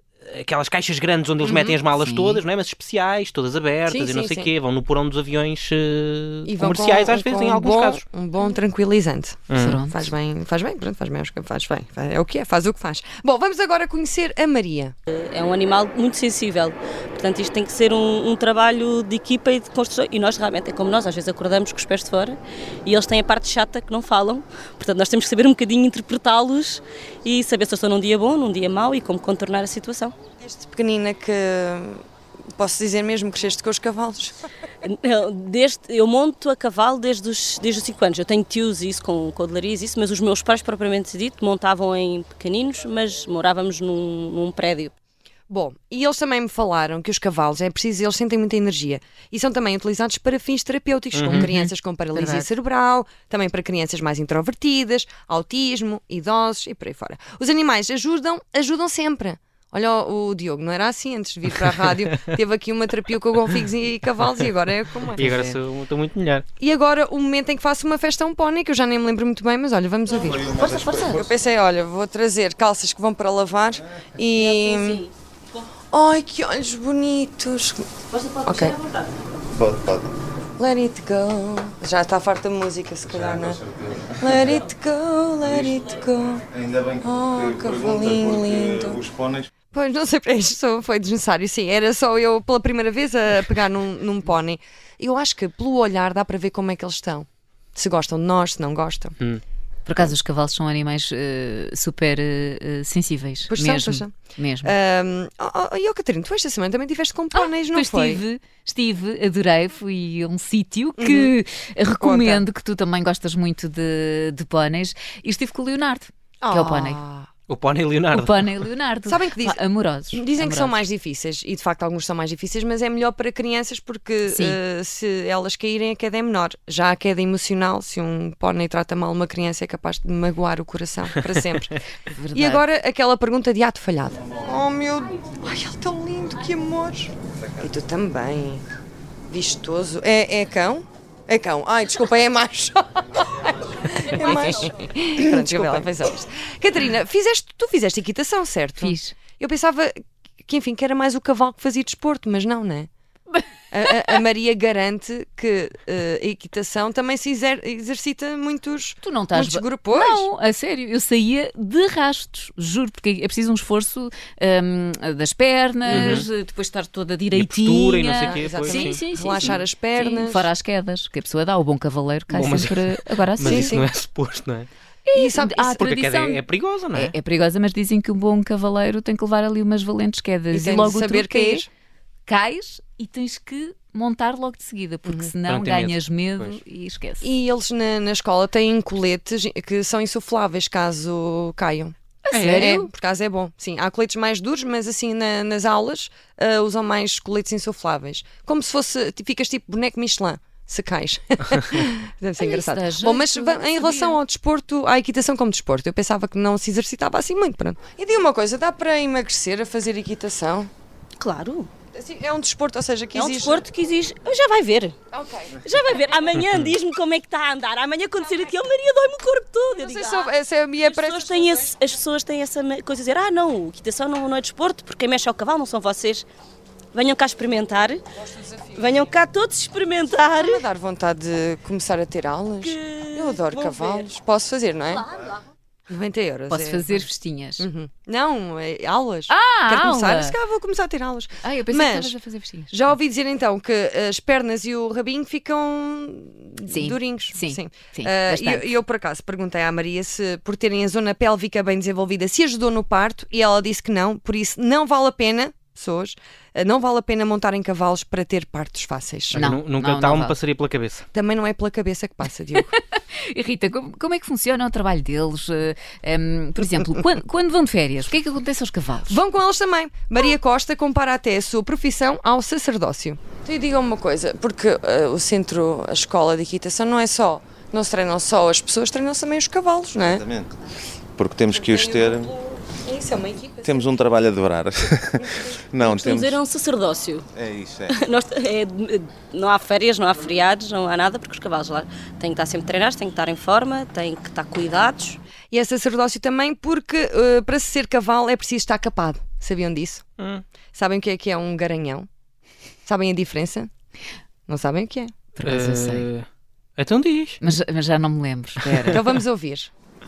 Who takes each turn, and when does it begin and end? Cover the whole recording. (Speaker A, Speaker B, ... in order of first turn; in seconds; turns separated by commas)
Speaker A: 0.2-8.0, Speaker B: 1.4-1.8, Speaker C: 1.9-2.4, Speaker B: 3.9-4.5, Speaker B: 6.5-14.9, Speaker A: 9.5-9.8, Speaker C: 9.5-10.1, Speaker D: 15.1-30.1, Speaker B: 30.4-32.0, Speaker B: 32.6-34.5, Speaker D: 34.8-44.9, Speaker B: 45.5-65.2, Speaker A: 51.1-51.5, Speaker C: 51.3-52.5, Speaker A: 65.2-66.5, Speaker C: 65.2-65.6, Speaker B: 66.6-75.1, Speaker E: 70.2-71.3, Speaker D: 74.4-75.1, Speaker B: 75.9-77.9, Speaker D: 78.1-79.1, Speaker B: 78.4-78.8, Speaker E: 79.5-80.1, Speaker B: 80.6-83.6, Speaker E: 83.1-84.6, Speaker B: 84.2-86.5, Speaker E: 86.5-89.5, Speaker B: 87.0-89.0, Speaker B: 89.7-99.2, Speaker C: 99.9-104.8, Speaker B: 103.5-108.2, Speaker C: 107.3-117.0, Speaker B: 111.0-111.3, Speaker B: 112.0-112.5, Speaker B: 116.4-117.3, Speaker A: 117.5-118.4, Speaker C: 118.1-120.9, Speaker B: 119.1-131.8, Speaker C: 124.3-124.6, Speaker C: 132.1-132.6, Speaker B: 132.3-138.6, Speaker B: 139.3-152.9, Speaker C: 148.8-149.2, Speaker B: 153.7-160.3, Speaker C: 159.0-173.8, Speaker A: 165.9-166.3, Speaker B: 165.9-166.2, Speaker A: 167.3-169.0, Speaker B: 168.2-170.5, Speaker A: 172.3-174.7, Speaker B: 173.4-173.9, Speaker C: 175.1-181.7, Speaker B: 175.2-175.8, Speaker A: 175.8-177.2, Speaker B: 180.5-181.7, Speaker C: 182.3-187.3, Speaker B: 185.1-185.3, Speaker A: 185.5-186.6, Speaker B: 187.2-191.9, Speaker C: 192.2-192.9, Speaker A: 192.3-192.7, Speaker B: 192.5-210.7, Speaker C: 202.4-204.2, Speaker D: 211.2-211.7, Speaker B: 211.9-213.7, Speaker D: 213.1-215.0, Speaker B: 215.1-215.6, Speaker D: 215.6-226.3, Speaker B: 219.7-221.9, Speaker D: 226.9-228.0, Speaker B: 228.2-228.8, Speaker D: 228.7-230.6, Speaker B: 230.2-235.1, Speaker D: 232.6-234.1, Speaker B: 235.9-237.1, Speaker C: 236.5-237.7, Speaker B: 237.6-242.2, Speaker C: 239.3-240.4, Speaker C: 241.4-242.8, Speaker B: 242.7-259.4, Speaker C: 246.7-248.7, Speaker C: 259.3-260.4, Speaker A: 259.3-261.1, Speaker B: 261.1-262.7, Speaker C: 263.2-269.2, Speaker B: 269.1-280.2, Speaker E: 280.0-280.5, Speaker E: 281.2-282.3, Speaker B: 281.5-283.9, Speaker E: 283.6-286.4, Speaker B: 285.3-285.5, Speaker D: 285.8-287.3, Speaker E: 287.3-288.0, Speaker D: 287.9-295.2, Speaker B: 295.5-300.0, Speaker A: 300.2-300.4, Speaker B: 300.7-302.1, Speaker B: 302.9-303.7, Speaker B: 304.5-305.1, Speaker C: 305.4-306.1, Speaker A: 305.4-306.3, Speaker A: 306.8-307.4, Speaker C: 307.4-309.0, Speaker B: 308.9-309.7